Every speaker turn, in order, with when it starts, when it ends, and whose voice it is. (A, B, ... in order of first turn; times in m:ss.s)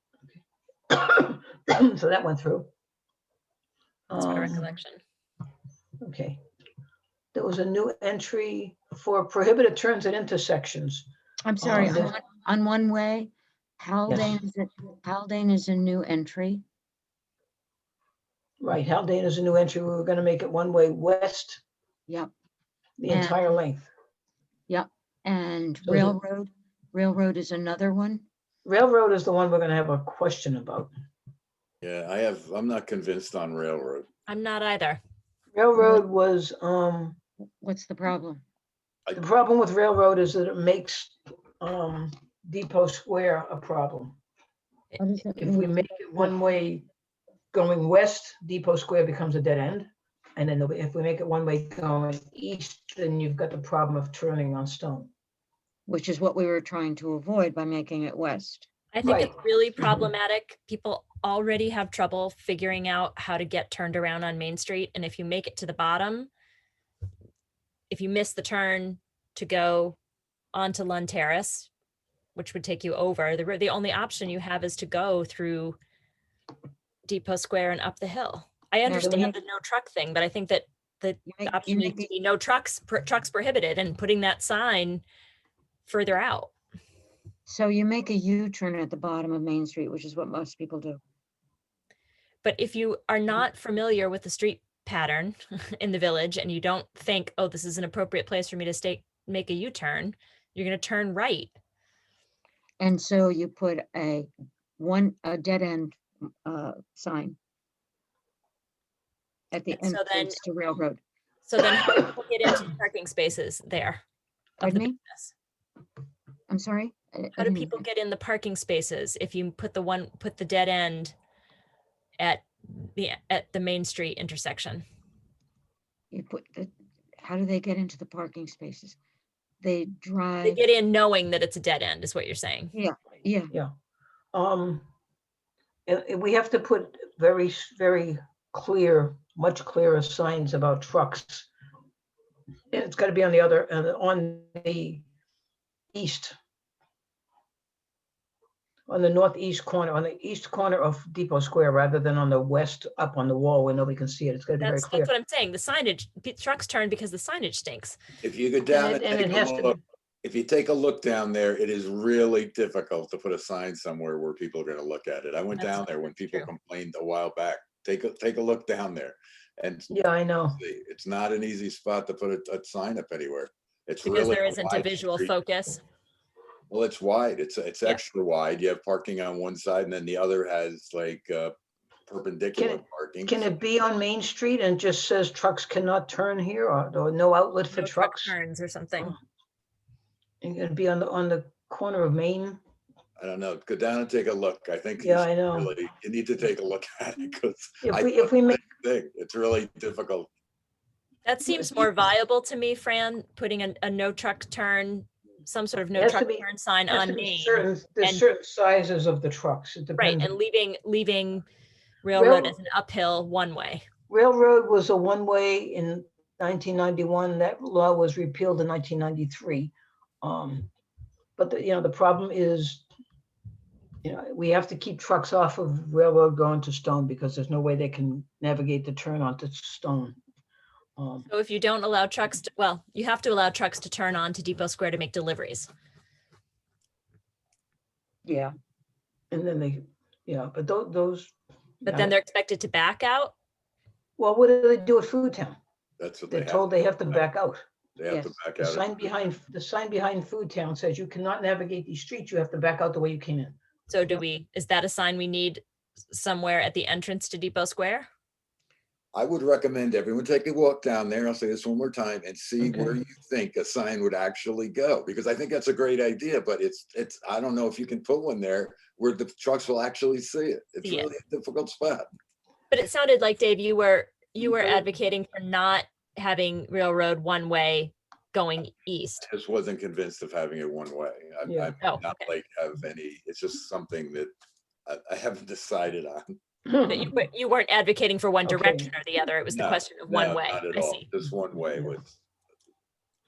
0:00.9-0:02.7 A
0:04.1-0:04.7 A
0:04.2-0:05.0 B
0:06.0-0:06.4 A
0:07.3-0:11.1 A
0:11.4-0:16.6 C
0:11.6-0:12.1 A
0:14.1-0:14.3 A
0:18.6-0:21.6 A
0:23.0-0:23.9 A
0:23.1-0:23.5 C
0:24.7-0:28.2 C
0:25.8-0:26.2 A
0:28.6-0:30.9 A
0:31.8-0:34.1 D
0:34.3-0:35.0 B
0:35.5-0:37.2 A
0:37.6-0:38.4 C
0:39.1-0:44.2 A
0:45.0-0:45.9 C
0:45.4-0:46.8 A
0:47.5-0:55.1 A
0:55.9-0:58.7 C
0:58.9-1:06.3 B
0:59.0-0:59.3 A
1:07.9-1:10.0 B
1:10.5-1:11.7 B
1:12.3-1:15.8 B
1:17.1-1:25.0 B
1:18.8-1:19.3 C
1:18.9-1:19.3 A
1:21.3-1:22.1 C
1:25.8-1:26.5 B
1:27.4-1:31.0 C
1:32.4-1:41.5 B
1:42.8-1:47.4 C
1:49.5-1:51.0 C
1:49.7-1:50.4 B
1:51.4-1:54.0 B
1:54.6-1:55.3 B
1:54.6-1:55.0 C
1:56.5-1:57.8 C
1:57.4-2:01.1 B
2:02.2-2:04.8 B
2:06.1-2:09.0 C
2:09.6-2:10.6 C
2:10.4-2:12.7 B
2:12.7-2:13.5 C
2:14.3-2:14.8 A
2:15.9-2:21.5 A
2:22.7-2:25.0 A
2:25.9-2:26.3 A
2:28.9-2:35.1 A
2:34.6-2:38.0 B
2:38.2-2:49.9 D
2:38.7-2:39.8 A
2:45.6-2:46.5 B
2:49.9-2:50.6 A
2:50.5-2:55.3 D
2:54.0-2:55.8 B
2:56.7-3:01.5 D
3:02.1-3:03.4 D
3:02.6-3:08.3 A
3:07.7-3:09.1 B
3:10.4-3:12.6 A
3:13.2-3:20.3 D
3:15.0-3:15.7 A
3:17.8-3:18.6 A
3:21.2-3:28.2 B
3:26.0-3:30.3 A
3:30.0-3:31.4 B
3:32.0-3:33.8 B
3:32.1-3:32.6 A
3:34.1-3:40.7 A
3:41.4-3:42.8 A
3:44.0-3:50.2 A
3:51.0-3:51.3 A
3:51.3-3:55.7 B
3:58.2-3:58.5 C
3:59.3-4:02.1 A
4:01.8-4:03.3 B
4:04.2-4:05.6 A
4:06.0-4:07.2 D
4:06.3-4:07.6 A
4:08.0-4:09.2 D
4:08.1-4:08.3 C
4:08.6-4:13.6 A
4:13.9-4:18.1 B
4:19.1-4:32.1 D
4:30.8-4:31.1 B
4:32.7-4:39.2 B
4:39.2-4:44.3 D
4:41.5-4:41.7 A
4:41.8-4:42.2 B
4:44.9-4:46.3 D
4:46.7-4:47.1 A
4:46.8-4:51.0 B
4:48.5-4:48.9 A
4:49.5-4:52.1 D